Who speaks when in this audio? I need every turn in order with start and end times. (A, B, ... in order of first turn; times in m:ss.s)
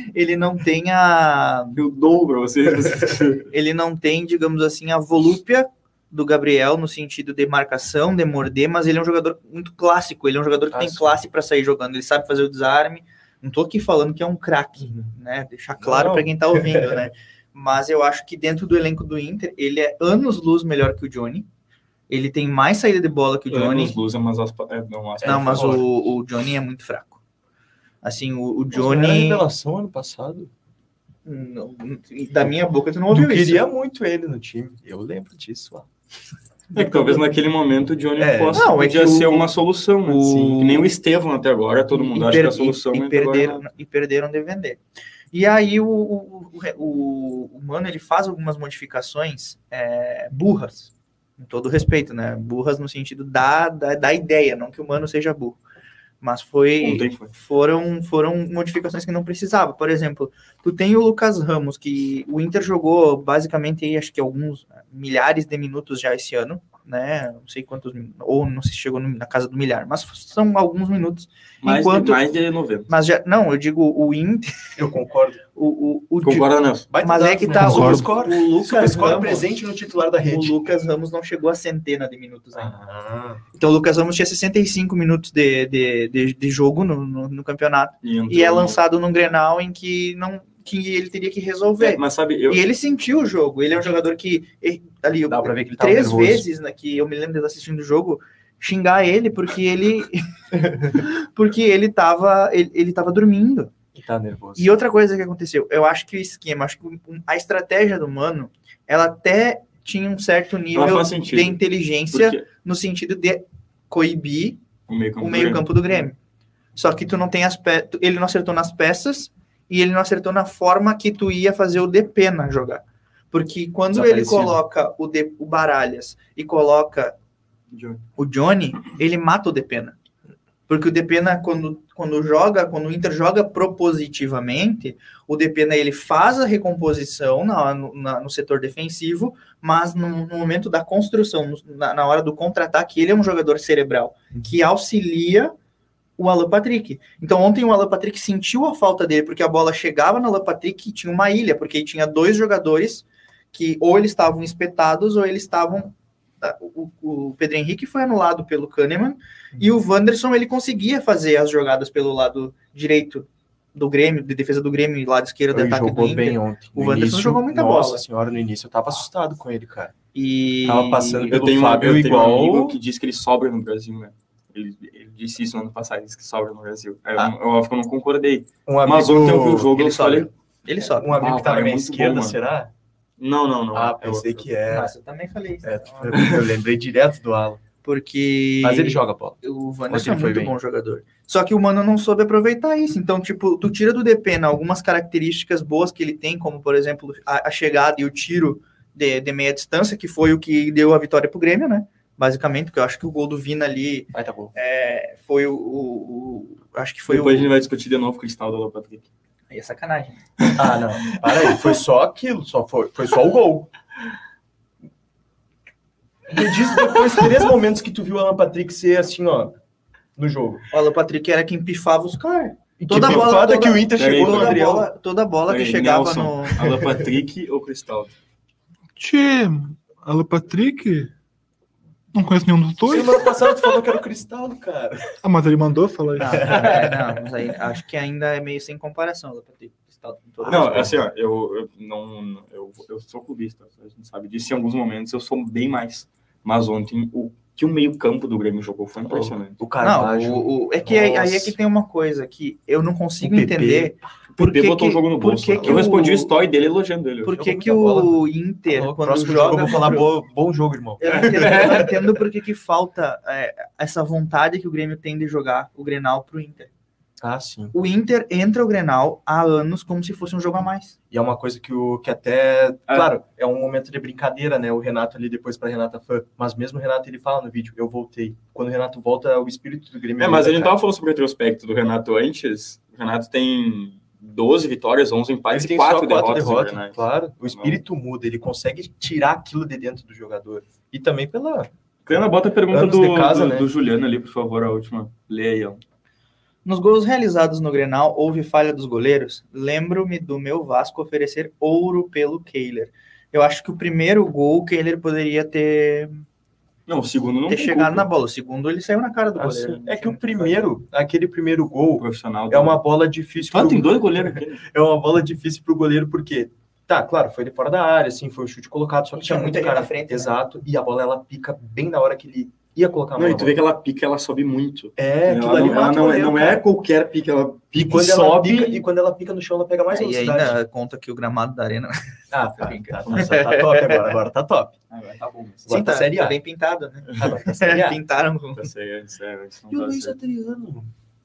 0:00.1-0:01.8 A
0:01.7-0:03.5 B
0:03.5-0:21.5 A
0:10.7-0:11.2 C
0:14.8-0:15.1 C
0:15.8-0:17.1 C
0:22.1-0:24.0 A
0:23.5-0:25.8 B
0:25.2-0:25.8 C
0:25.2-0:27.2 A
0:28.0-0:29.5 A
0:28.7-0:30.5 C
0:31.2-0:33.7 A
0:33.1-0:35.9 C
0:36.7-0:37.2 A
0:36.7-0:43.6 B
0:38.2-0:38.7 C
0:38.5-0:39.5 A
0:40.1-0:40.9 A
0:40.3-0:40.6 C
0:41.9-0:44.8 A
0:45.3-0:55.6 A
0:56.2-1:12.2 A
0:56.8-0:57.3 B
1:11.6-1:12.9 B
1:12.9-1:14.7 A
1:14.8-1:15.4 C
1:15.6-1:16.5 A
1:16.2-1:16.9 B
1:16.9-1:20.6 C
1:17.0-1:19.5 A
1:17.5-1:18.1 D
1:20.3-1:22.8 A
1:22.6-1:23.4 C
1:23.5-1:40.2 A
1:28.0-1:28.8 B
1:31.8-1:32.6 B
1:35.3-1:36.5 C
1:40.9-1:43.7 A
1:44.0-1:44.7 C
1:44.6-1:54.6 A
1:50.7-1:51.6 B
1:52.1-1:52.4 B
1:54.9-1:55.7 B
1:55.2-1:56.2 A
1:56.8-2:07.2 A
2:03.9-2:04.6 C
2:07.7-2:08.0 B
2:08.2-2:10.0 A
2:10.7-2:25.5 A
2:26.2-2:48.0 A
2:45.5-2:49.9 C
2:50.1-2:51.4 A
2:50.6-2:52.8 C
2:51.3-3:00.3 B
2:58.7-3:02.7 C
3:00.1-3:01.2 A
3:01.2-3:02.4 B
3:03.2-3:04.5 B
3:03.7-3:04.9 C
3:04.7-3:06.3 A
3:05.6-3:07.6 C
3:06.1-3:06.4 B
3:07.8-3:27.5 A
3:08.6-3:09.4 C
3:09.9-3:10.6 C
3:24.1-3:24.5 C
3:27.1-3:29.1 B
3:29.5-3:30.2 A
3:30.6-3:33.7 C
3:36.3-3:39.6 C
3:40.2-3:40.6 C
3:40.7-3:46.8 A
3:42.8-3:44.9 C
3:43.9-3:44.7 B
3:45.5-3:48.1 B
3:49.0-3:51.1 D
3:52.1-3:53.3 D
3:52.9-3:55.1 C
3:55.2-3:56.7 D
3:56.2-4:01.0 A
3:56.3-3:57.1 C
4:00.4-4:01.0 C
4:00.5-4:09.6 B
4:09.1-4:11.6 C
4:09.8-4:16.3 A
4:13.2-4:14.0 C
4:14.4-4:17.3 B
4:15.5-4:15.9 C
4:17.3-4:20.1 A
4:17.3-4:22.0 C
4:21.0-4:26.7 A
4:21.1-4:21.9 B
4:27.2-4:27.8 C
4:27.7-4:31.0 A
4:31.1-4:40.8 C
4:40.2-4:47.8 B
4:45.5-4:53.7 C
4:52.1-4:55.8 B
4:56.6-5:06.2 A
5:06.9-5:08.1 B
5:07.5-5:10.6 A
5:09.4-5:23.6 C
5:12.0-5:12.8 B
5:13.4-5:14.6 B
5:19.2-5:20.4 A
5:23.2-5:28.8 B
5:25.0-5:26.6 C
5:27.7-5:30.6 C
5:29.9-5:32.0 A
5:32.3-5:34.8 C
5:32.6-5:34.2 A
5:33.1-5:33.3 B
5:34.9-5:35.8 B
5:35.7-5:36.4 C
5:35.7-5:38.7 A
5:37.2-5:38.0 C
5:38.6-5:40.2 B
5:39.7-5:40.9 C